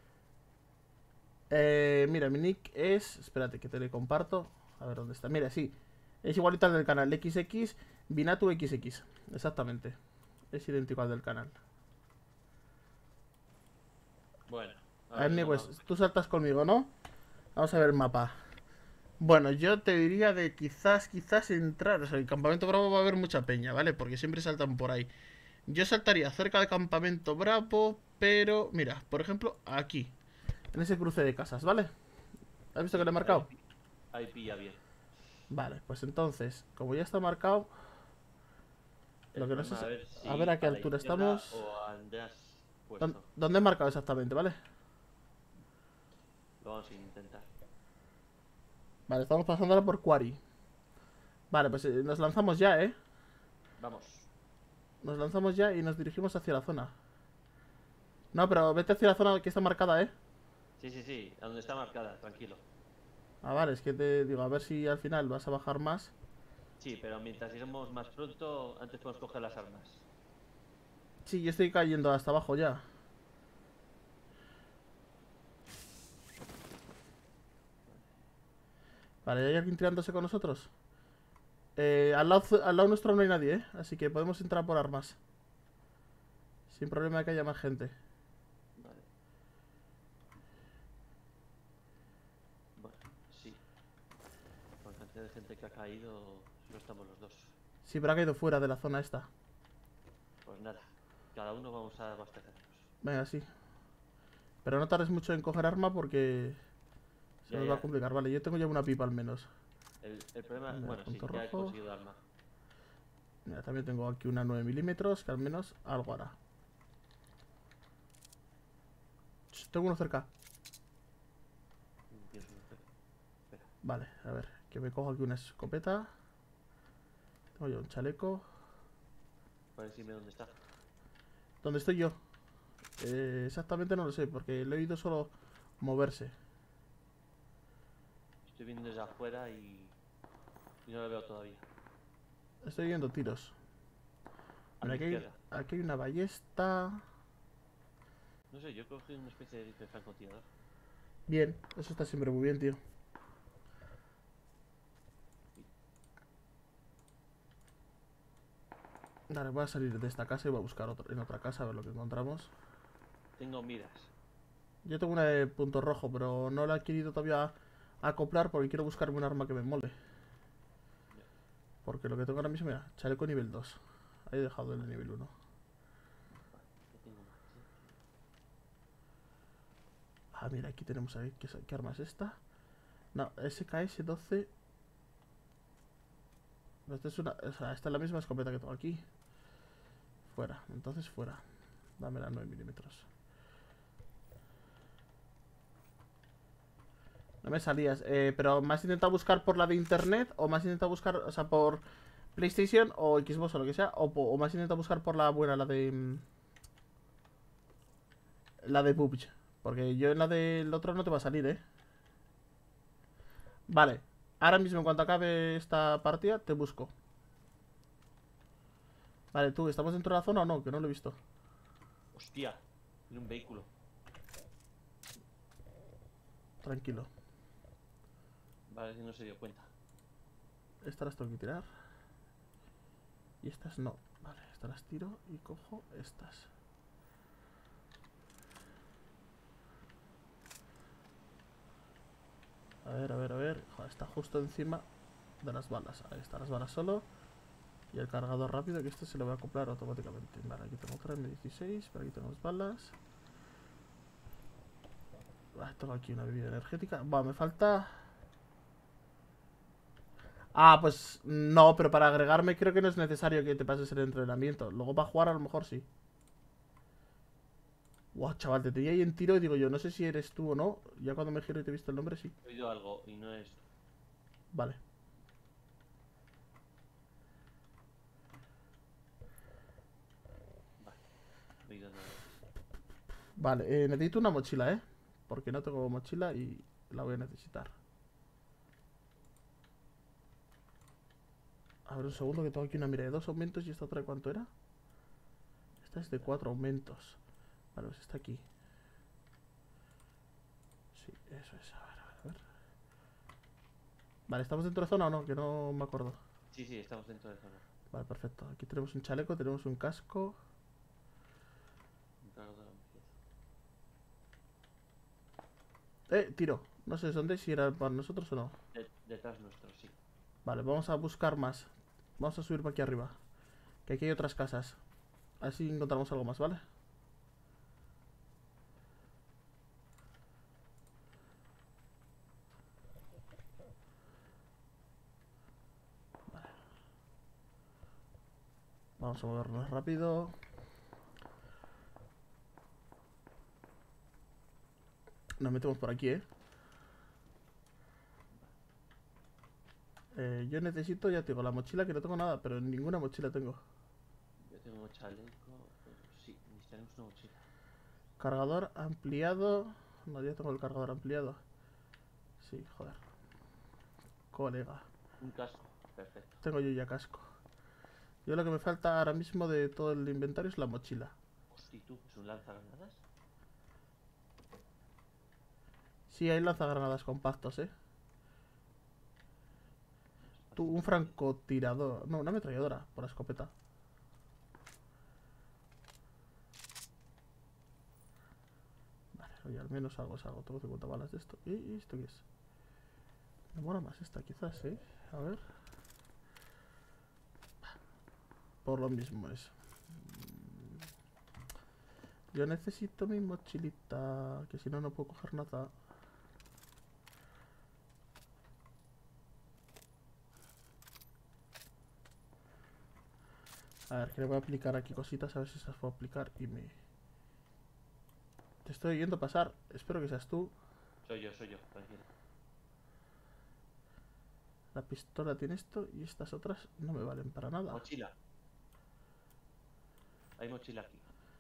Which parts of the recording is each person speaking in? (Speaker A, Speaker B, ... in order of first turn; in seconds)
Speaker A: 1.5-10.0, 10.5-11.6, 15.1-16.9, 17.6-18.4, 19.2-25.1, 25.7-30.1, 30.7-31.9, 32.7-33.5, 35.5-37.7, 39.4-41.6, 43.0-44.6, 49.1-50.4, 51.5-53.0, 55.0-57.0, 58.3-60.1, 63.4-66.1, 71.2-72.9, 79.2-80.7, 81.8-85.2, 86.7-88.0, 97.8-99.3, 103.0-103.5, 104.6-106.6, 107.5-109.5, 110.7-111.8, 113.5-116.4, 119.5-120.3, 123.8-126.1, 127.6-128.5, 131.6-132.2, 133.0-136.3, 142.6-143.6, 144.8-147.1, 151.3-152.8, 159.3-162.5, 164.8-170.0, 171.8-175.3, 180.3-182.4, 183.1-184.5, 186.9-189.0, 190.3-191.4, 192.0-193.1, 197.4-201.8, 202.3-206.2, 208.6-211.6, 213.7-216.9, 219.3-221.2, 226.6-227.1, 230.8-231.7, 233.4-236.5, 242.8-244.8, 245.4-247.1, 247.9-253.0, 255.5-258.1, 260.5-265.9, 268.1-272.3, 274.5-274.8, 283.4-287.7, 291.9-294.5, 295.8-297.2, 297.8-298.4, 300.9-302.4, 304.3-306.2, 307.9-310.4, 316.1-318.6, 320.4-323.2, 323.9-324.8, 325.4-326.6, 336.3-336.6, 339.0-340.4, 345.4-346.2, 350.1-353.6, 358.2-361.4, 362.4-363.0, 364.3-364.9, 366.4-367.3, 368.2-371.1, 376.1-377.7, 380.6-383.5, 389.1-392.2, 393.5-395.4, 398.6-400.9, 402.3-405.7, 413.9-416.8, 418.6-420.5, 424.7-427.8
Speaker B: 14.5-15.8, 32.9-33.6, 34.1-34.8, 39.3-43.3, 46.6-47.5, 53.8-54.3, 60.8-62.6, 66.8-70.1, 77.9-78.1, 88.8-89.1, 92.8-93.6, 94.8-97.6, 100.5-102.9, 107.5-107.9, 110.0-112.2, 122.1-122.9, 129.8-130.6, 138.5-139.9, 140.8-141.7, 144.8-145.4, 148.5-150.5, 163.4-164.1, 176.5-178.0, 222.1-223.7, 228.7-229.7, 272.4-273.6, 281.6-282.3, 306.5-307.6, 312.2-313.1, 318.7-320.0, 348.3-348.6, 354.4-357.5, 365.2-366.4, 371.5-373.0, 380.3-381.2, 421.1-422.1, 427.7-428.1, 430.4-431.1